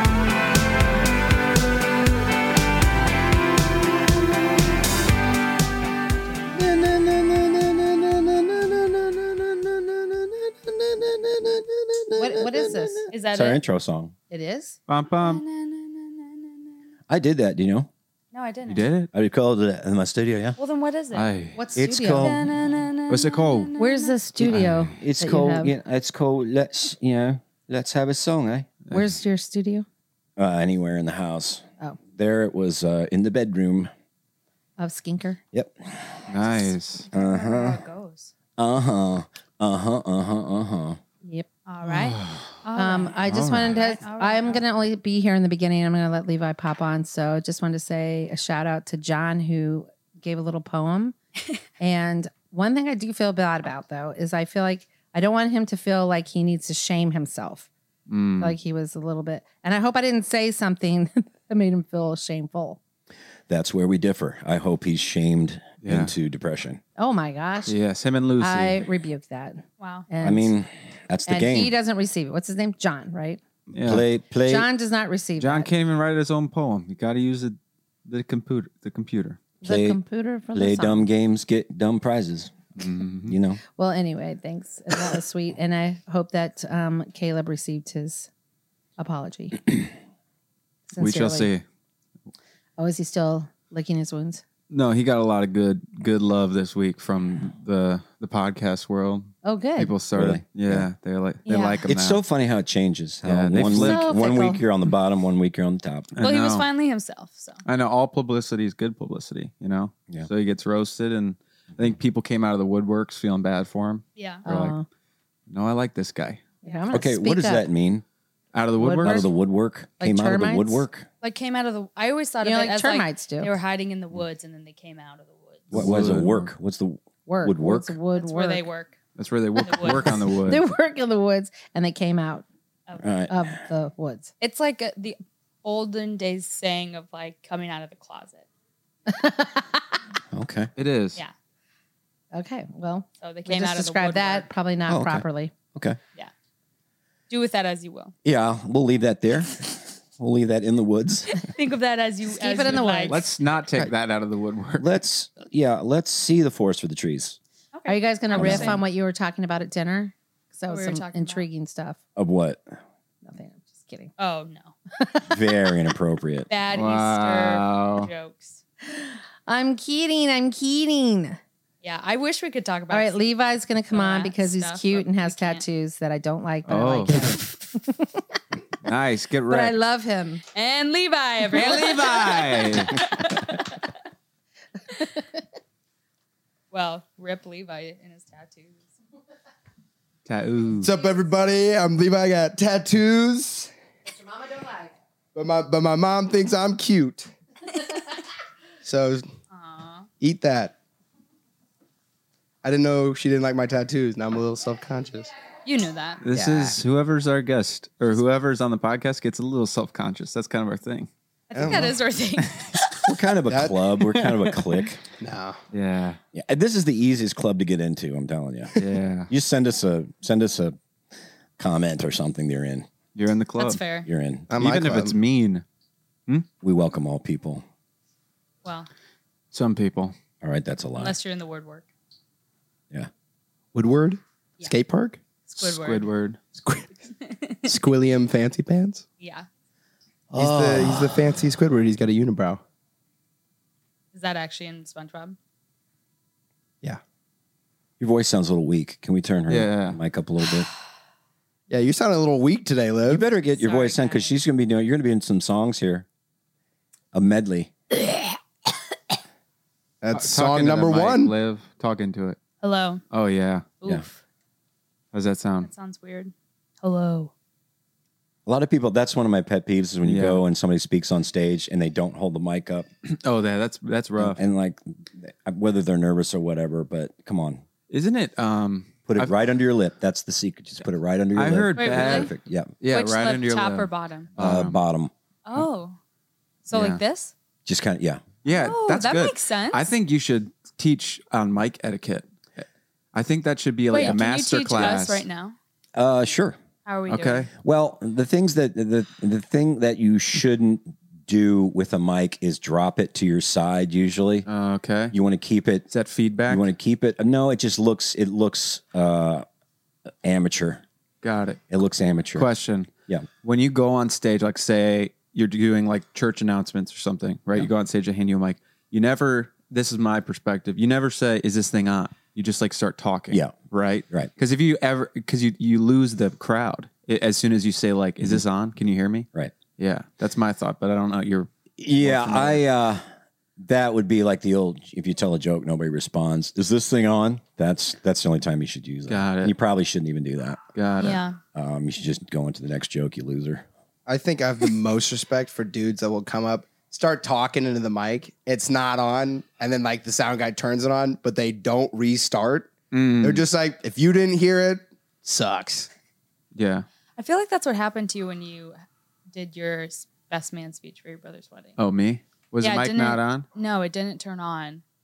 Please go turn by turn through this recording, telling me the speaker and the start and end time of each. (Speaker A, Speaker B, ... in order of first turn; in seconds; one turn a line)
Speaker A: 6.5-14.2
Speaker B: 12.2-13.1
Speaker C: 13.1-13.6
Speaker B: 14.3-14.8
Speaker D: 14.9-15.4
Speaker C: 15.1-16.8
Speaker A: 17.1-17.9
Speaker C: 18.3-18.9
Speaker D: 18.7-19.1
Speaker A: 19.1-20.6
Speaker C: 20.6-21.3
Speaker D: 21.1-21.6
Speaker B: 21.6-22.4
Speaker A: 21.8-22.4
Speaker C: 22.2-24.2
Speaker D: 23.1-23.7
Speaker B: 23.8-25.7
Speaker A: 24.4-28.7
Speaker D: 24.5-24.9
Speaker D: 28.9-29.2
Speaker B: 28.9-29.9
Speaker A: 30.4-33.9
Speaker B: 34.8-35.4
Speaker A: 35.5-36.3
Speaker D: 36.3-37.1
Speaker C: 37.1-38.3
Speaker A: 37.1-37.8
Speaker A: 38.6-41.0
Speaker C: 41.7-44.6
Speaker D: 41.9-42.5
Speaker B: 42.8-51.1
Speaker D: 43.3-43.8
Speaker B: 51.8-57.7
Speaker D: 58.1-58.6
Speaker B: 58.4-62.8
Speaker A: 63.5-66.8
Speaker D: 65.8-66.1
Speaker B: 67.0-67.8
Speaker D: 67.7-68.9
Speaker B: 68.4-70.5
Speaker C: 69.8-70.1
Speaker A: 70.2-71.7
Speaker B: 71.3-73.4
Speaker D: 73.7-74.0
Speaker A: 73.8-74.7
Speaker B: 74.4-75.7
Speaker D: 75.4-79.4
Speaker B: 79.6-81.1
Speaker A: 79.7-80.0
Speaker A: 80.5-82.5
Speaker D: 82.8-83.4
Speaker A: 83.3-83.6
Speaker B: 83.7-88.3
Speaker B: 89.0-89.9
Speaker B: 90.9-91.5
Speaker D: 91.0-91.6
Speaker B: 92.8-94.4
Speaker D: 94.7-102.2
Speaker B: 99.4-99.9
Speaker A: 100.1-100.9
Speaker C: 101.5-101.8
Speaker A: 101.9-106.1
Speaker D: 103.2-104.1
Speaker B: 103.7-104.6
Speaker D: 106.1-106.7
Speaker C: 106.2-107.6
Speaker D: 107.7-114.8
Speaker C: 114.2-114.4
Speaker B: 114.5-114.9
Speaker D: 115.5-116.4
Speaker B: 116.6-117.7
Speaker A: 116.9-118.0
Speaker D: 118.5-119.2
Speaker B: 118.8-119.3
Speaker A: 119.0-121.1
Speaker B: 120.0-120.8
Speaker C: 121.2-125.8
Speaker B: 122.4-123.5
Speaker D: 125.7-126.5
Speaker A: 125.7-128.0
Speaker B: 127.3-128.7
Speaker C: 128.2-129.0
Speaker D: 129.2-130.7
Speaker C: 129.6-130.2
Speaker B: 129.9-132.4
Speaker A: 133.0-133.6
Speaker B: 133.3-134.3
Speaker C: 134.4-138.5
Speaker B: 139.1-139.7
Speaker A: 140.3-140.7
Speaker D: 140.8-141.2
Speaker B: 142.3-145.5
Speaker C: 143.2-144.5
Speaker A: 144.9-146.0
Speaker C: 147.3-148.1
Speaker A: 148.2-151.4
Speaker C: 151.3-153.2
Speaker B: 152.3-153.3
Speaker D: 153.1-154.9
Speaker A: 154.8-157.4
Speaker C: 157.7-158.8
Speaker B: 157.9-162.0
Speaker A: 158.3-158.8
Speaker C: 160.7-161.5
Speaker A: 162.2-162.8
Speaker B: 163.2-164.1
Speaker C: 164.2-164.8
Speaker B: 165.0-165.3
Speaker A: 165.3-166.5
Speaker C: 166.5-168.6
Speaker D: 166.7-168.1
Speaker B: 168.9-171.4
Speaker C: 171.8-173.2
Speaker B: 172.9-178.2
Speaker C: 173.9-175.6
Speaker D: 176.7-177.3
Speaker C: 177.1-177.4
Speaker D: 178.8-179.8
Speaker B: 179.5-180.4
Speaker C: 180.5-183.6
Speaker D: 181.5-182.9
Speaker B: 184.9-185.2
Speaker C: 186.7-188.8
Speaker D: 190.3-190.9
Speaker E: 190.8-193.7
Speaker B: 194.1-194.9
Speaker E: 195.3-197.3
Speaker E: 198.8-199.3
Speaker C: 199.5-200.1
Speaker E: 200.2-200.8
Speaker E: 202.6-205.3
Speaker C: 205.7-206.2
Speaker D: 206.2-211.1
Speaker E: 206.3-206.8
Speaker C: 211.5-213.1
Speaker E: 211.5-212.0
Speaker A: 213.1-215.0
Speaker E: 213.5-213.8
Speaker E: 215.2-215.6
Speaker D: 215.7-216.2
Speaker A: 216.3-218.8
Speaker D: 218.8-219.3
Speaker A: 219.3-220.8
Speaker A: 221.6-222.9
Speaker D: 223.2-223.8
Speaker C: 223.6-224.1
Speaker A: 224.1-224.5
Speaker E: 224.5-225.2
Speaker D: 224.5-225.6
Speaker A: 226.6-227.6
Speaker C: 228.6-228.9
Speaker D: 229.5-230.2
Speaker A: 230.4-231.2
Speaker C: 231.0-231.9
Speaker E: 233.7-235.2
Speaker C: 235.5-236.1
Speaker D: 235.6-236.4
Speaker E: 236.6-236.9
Speaker C: 237.2-237.7
Speaker E: 237.7-239.0
Speaker C: 239.2-239.5
Speaker A: 240.3-241.4
Speaker E: 240.4-242.6
Speaker C: 244.1-245.4
Speaker A: 248.0-250.7
Speaker D: 249.5-250.0
Speaker E: 251.7-253.2
Speaker A: 253.1-256.1
Speaker C: 253.5-254.3
Speaker A: 257.1-257.8
Speaker E: 260.0-261.4
Speaker D: 260.1-262.4
Speaker C: 262.6-263.0
Speaker D: 263.1-263.7
Speaker C: 263.8-264.2
Speaker D: 265.1-265.7
Speaker C: 265.6-267.3
Speaker A: 268.5-272.9
Speaker D: 270.1-270.4
Speaker D: 273.1-274.4
Speaker A: 274.2-277.6
Speaker D: 277.9-279.3
Speaker A: 279.1-282.7
Speaker D: 281.4-284.8
Speaker C: 281.8-282.3
Speaker C: 282.9-284.3
Speaker A: 284.4-285.1
Speaker C: 285.5-286.0
Speaker C: 286.6-287.3
Speaker D: 286.7-287.0
Speaker A: 287.7-288.2
Speaker D: 288.4-295.2
Speaker C: 288.5-289.9
Speaker C: 293.9-295.6
Speaker A: 295.9-296.6
Speaker C: 296.9-297.5
Speaker D: 297.1-297.5
Speaker A: 297.6-304.5
Speaker D: 304.5-305.1
Speaker A: 305.1-305.9
Speaker D: 305.9-306.7
Speaker A: 306.5-309.5
Speaker A: 310.2-310.8
Speaker D: 311.2-311.6
Speaker A: 311.7-312.5
Speaker D: 312.4-312.9
Speaker D: 313.4-332.6
Speaker A: 331.8-333.1
Speaker A: 333.6-340.6
Speaker D: 339.1-339.5
Speaker D: 340.8-341.2
Speaker C: 341.0-341.4
Speaker A: 341.6-343.7
Speaker E: 344.1-352.7
Speaker D: 352.9-353.5
Speaker E: 353.2-355.9
Speaker D: 356.6-356.9
Speaker C: 357.2-358.8
Speaker C: 359.3-361.8
Speaker D: 361.8-363.5
Speaker C: 362.6-364.8